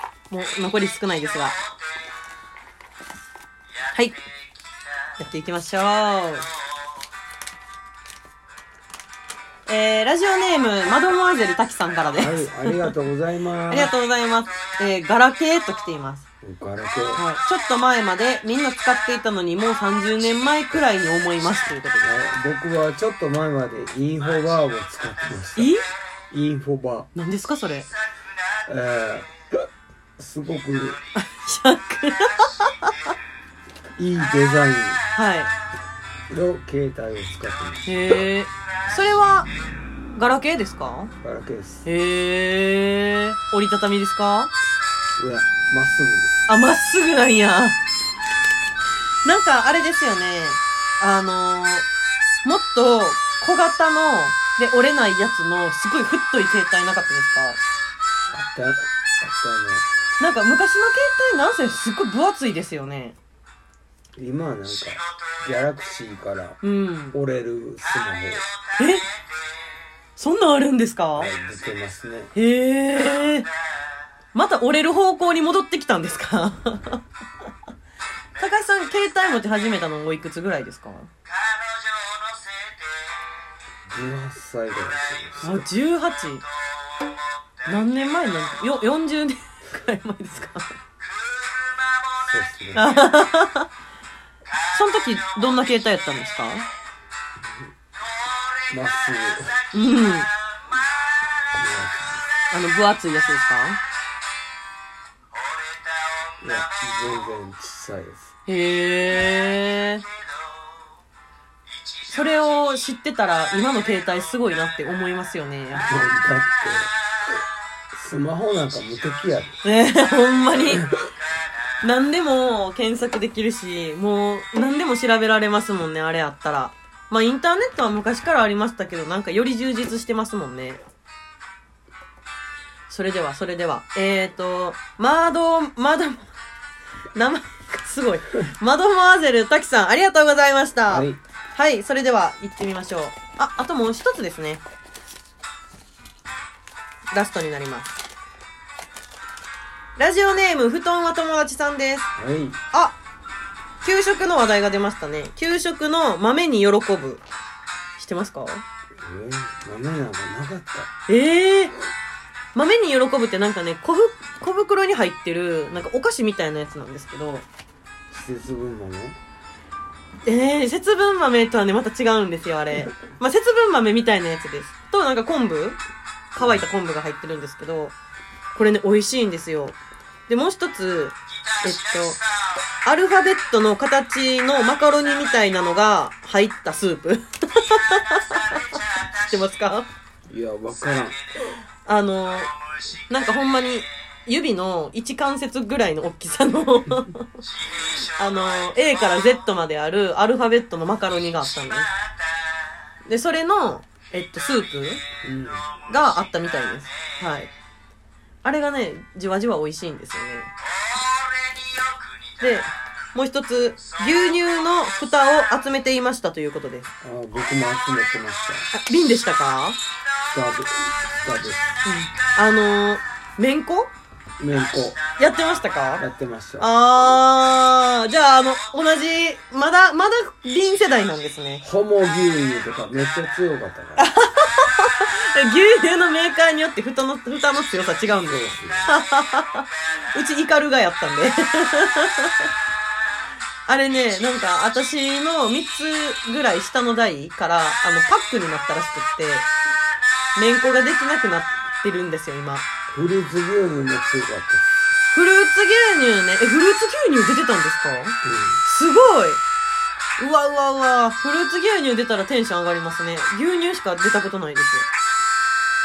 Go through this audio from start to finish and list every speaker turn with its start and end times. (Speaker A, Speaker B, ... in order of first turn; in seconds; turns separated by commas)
Speaker A: 0.3-1.6, Speaker A: 3.9-4.2, Speaker A: 5.2-6.5, Speaker A: 9.7-12.9, Speaker B: 12.1-13.9, Speaker A: 13.7-16.2, Speaker B: 16.4-17.2, Speaker A: 17.1-22.2, Speaker B: 22.0-25.7, Speaker A: 25.6-25.9, Speaker B: 26.3-27.1, Speaker A: 27.1-27.9, Speaker B: 28.7-29.7, Speaker B: 30.2-31.0, Speaker A: 31.2-32.9, Speaker B: 34.0-35.0, Speaker A: 35.1-35.5, Speaker B: 36.3-38.2, Speaker A: 37.9-39.5, Speaker A: 40.2-41.1, Speaker B: 41.2-41.9, Speaker A: 41.9-44.5, Speaker B: 45.2-46.5, Speaker A: 46.5-47.8, Speaker A: 49.2-51.9, Speaker A: 52.4-57.6, Speaker B: 58.3-59.9, Speaker A: 60.2-63.2, Speaker B: 64.2-66.6, Speaker A: 66.6-67.2, Speaker B: 67.1-68.5, Speaker A: 68.8-69.0, Speaker A: 70.2-71.3, Speaker B: 71.2-72.3, Speaker A: 72.3-73.5, Speaker A: 74.3-77.0, Speaker A: 78.4-81.1, Speaker B: 83.9-85.7, Speaker A: 85.4-86.4, Speaker A: 87.7-90.8, Speaker B: 92.2-92.9, Speaker A: 92.8-93.7, Speaker A: 94.7-96.7, Speaker B: 97.4-97.7, Speaker B: 98.7-99.7, Speaker A: 99.7-100.3, Speaker B: 101.5-102.3, Speaker A: 102.5-103.8, Speaker B: 106.4-108.3, Speaker A: 108.5-110.0, Speaker A: 112.1-115.9, Speaker B: 115.8-116.9, Speaker B: 117.9-119.6, Speaker A: 119.6-120.8, Speaker B: 120.6-121.1, Speaker A: 121.8-130.8, Speaker A: 132.9-136.3, Speaker A: 137.2-144.6, Speaker B: 140.9-141.2, Speaker A: 147.1-148.0, Speaker A: 150.0-152.1, Speaker B: 152.2-152.6, Speaker A: 153.8-157.2, Speaker A: 158.0-158.6, Speaker B: 159.0-160.9, Speaker A: 161.1-161.7, Speaker A: 162.6-167.5, Speaker B: 168.1-169.2, Speaker A: 170.3-175.8, Speaker A: 176.3-177.9, Speaker B: 176.4-176.7, Speaker A: 178.5-179.8, Speaker A: 180.3-182.2, Speaker A: 182.8-188.7, Speaker A: 189.2-189.9, Speaker B: 190.3-191.2, Speaker A: 191.9-192.5, Speaker A: 193.1-197.3, Speaker A: 198.0-201.9, Speaker A: 203.1-205.0, Speaker B: 205.2-205.7, Speaker A: 205.9-207.5, Speaker A: 208.4-210.5, Speaker A: 212.4-216.9, Speaker B: 217.0-218.7, Speaker A: 218.7-219.8, Speaker B: 220.3-221.8, Speaker A: 221.8-223.9, Speaker B: 224.4-225.0, Speaker A: 225.2-226.0, Speaker B: 226.0-226.7, Speaker A: 226.6-231.6, Speaker B: 231.6-234.1, Speaker A: 234.0-242.5, Speaker B: 238.3-239.0, Speaker A: 243.7-249.5, Speaker A: 250.4-252.7, Speaker B: 252.9-254.7, Speaker A: 255.1-259.4, Speaker B: 258.2-258.6, Speaker A: 260.2-264.9